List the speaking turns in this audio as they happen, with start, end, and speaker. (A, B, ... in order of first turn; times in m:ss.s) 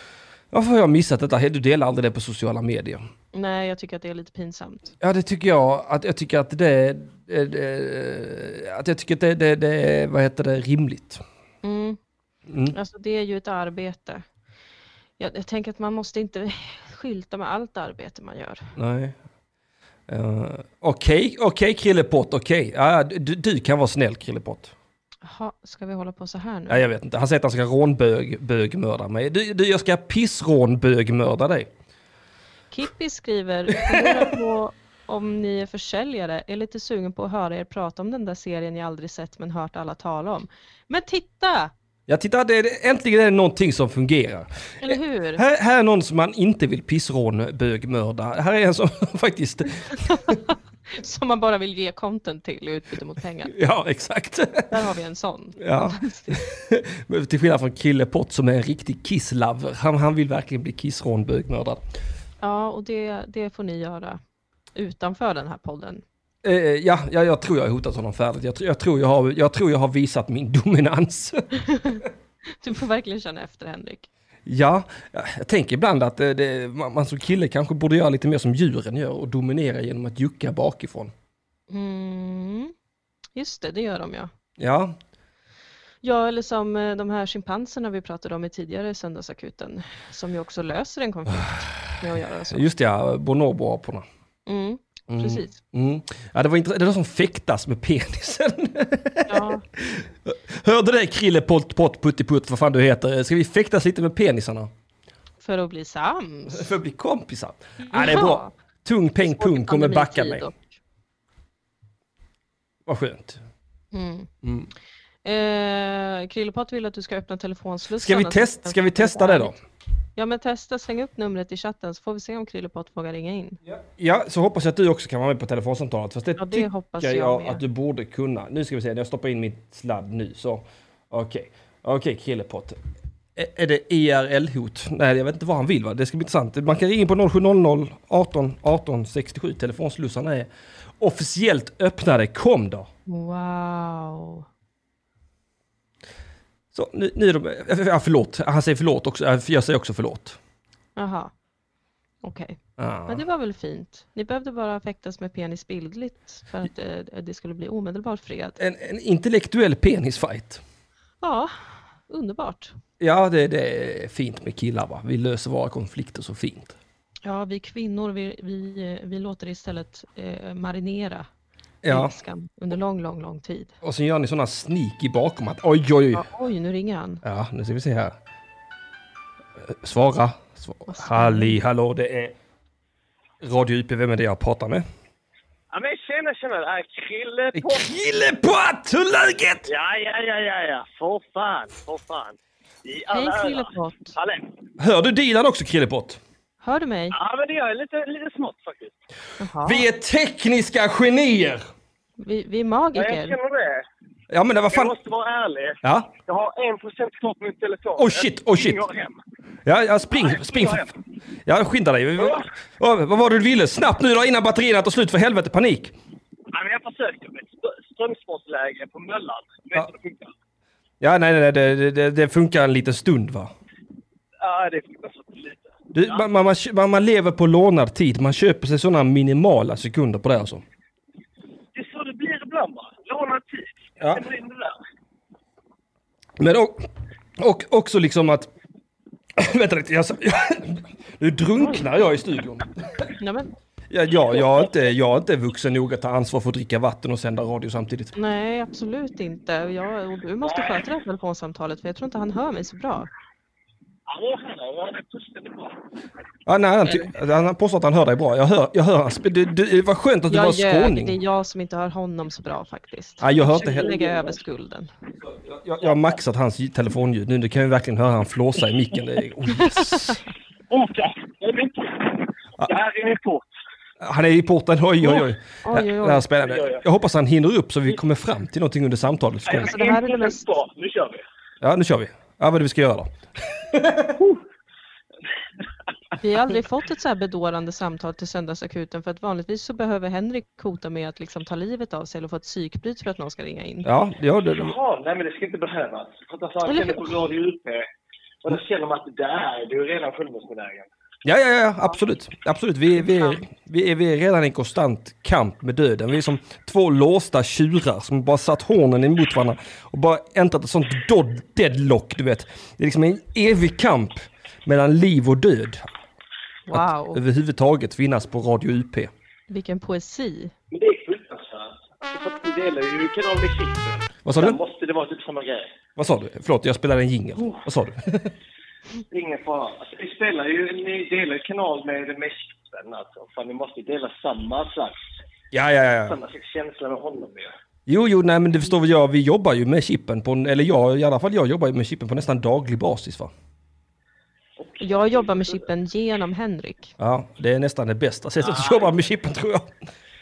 0:00.5-0:03.0 A
0:03.3-0:05.0 B
0:05.0-0:11.2 A
0:11.6-0:12.0 B
0:12.5-0:12.8 A
0:12.7-0:14.2 B
0:15.2-0:18.7 B
0:18.8-0:19.2 A
0:20.1-0:24.7 A
0:25.2-0:26.8 B
0:26.7-0:31.7 A
0:32.7-0:41.7 B
0:33.8-0:34.3 A
0:42.1-0:50.4 A
0:44.8-0:45.4 B
0:50.3-0:53.5 B
0:53.5-0:54.7 A
0:54.7-0:56.4 B
0:55.6-1:01.8 A
1:02.4-1:04.2 B
1:04.8-1:06.0 B
1:06.4-1:11.5 A
1:11.7-1:12.0 B
1:12.6-1:14.1 B
1:14.5-1:21.1 A
1:21.7-1:22.7 B
1:23.4-1:24.3 B
1:24.6-1:25.0 A
1:26.0-1:32.6 B
1:32.5-1:34.1 A
1:34.5-1:35.6 B
1:35.1-1:44.7 A
1:39.3-1:39.6 B
1:45.4-1:46.7 B
1:46.5-1:50.5 A
1:47.9-1:48.5 B
1:49.2-1:50.7 B
1:52.9-1:53.4 A
1:53.9-1:54.3 B
1:54.4-1:54.7 A
1:55.2-1:59.5 B
1:58.0-1:59.6 A
2:00.2-2:03.6 B
2:03.7-2:12.8 A
2:06.4-2:07.6 B
2:13.4-2:20.5 A
2:21.0-2:22.9 A
2:23.1-2:24.5 B
2:26.7-2:30.4 A
2:31.0-2:31.3 B
2:32.2-2:38.6 B
2:32.8-2:33.2 A
2:38.6-2:40.6 A
2:41.2-2:41.5 B
2:42.1-2:42.8 B
2:43.0-2:46.8 A
2:47.2-2:51.3 B
2:51.8-2:52.1 A
2:51.9-2:53.7 B
2:53.8-2:56.2 A
2:56.1-2:57.2 B
2:57.2-2:58.2 A
2:59.6-3:02.4 A
3:00.9-3:01.6 B
3:03.4-3:04.8 A
3:05.7-3:07.9 C
3:07.5-3:09.7 A
3:09.7-3:14.5 C
3:13.1-3:14.1 B
3:14.8-3:16.2 A
3:16.6-3:17.2 B
3:17.1-3:19.0 C
3:19.4-3:19.9 B
3:19.6-3:21.6 A
3:22.2-3:23.4 B
3:22.9-3:23.9 C
3:24.3-3:24.9 A
3:24.7-3:29.2 C
3:25.8-3:26.1 A
3:28.0-3:28.8 A
3:29.7-3:30.9 A
3:30.1-3:31.0 C
3:31.5-3:35.9 A
3:32.2-3:32.5 C
3:36.5-3:40.3 C
3:41.0-3:43.5 A
3:44.4-3:46.3 C
3:45.9-3:50.6 A
3:51.8-3:54.8 C
3:56.4-3:58.5 A
3:59.4-4:03.1 A
4:03.2-4:03.5 B
4:03.9-4:08.1 A
4:08.2-4:13.1 B
4:10.4-4:10.8 C
4:14.1-4:15.8 C
4:16.5-4:21.2 A
4:20.3-4:24.9 B
4:23.2-4:23.9 A
4:23.6-4:24.4 C
4:25.2-4:30.2 A
4:30.7-4:33.5 C
4:34.0-4:39.7 A
4:35.6-4:36.3 B
4:36.4-4:36.8 C
4:39.5-4:41.2 C
4:39.5-4:40.5 B
4:41.6-4:44.2 A
4:44.2-4:44.4 C
4:46.2-4:53.9 B
4:53.8-4:54.8 A
4:54.5-4:57.9 C
4:56.7-4:57.1 B
4:58.4-5:00.9 C
5:01.2-5:15.8 A
5:16.7-5:17.2 B
5:16.7-5:19.1 A
5:19.5-5:20.5 B
5:20.7-5:25.7 C
5:24.2-5:24.6 A
5:26.0-5:28.3 A
5:27.4-5:27.6 C
5:29.1-5:35.1 C
5:35.5-5:36.2 A
5:36.1-5:37.5 C
5:37.9-5:43.3 A
5:44.6-5:45.7 C
5:44.8-5:46.9 B
5:47.0-5:49.7 A
5:48.4-5:49.0 C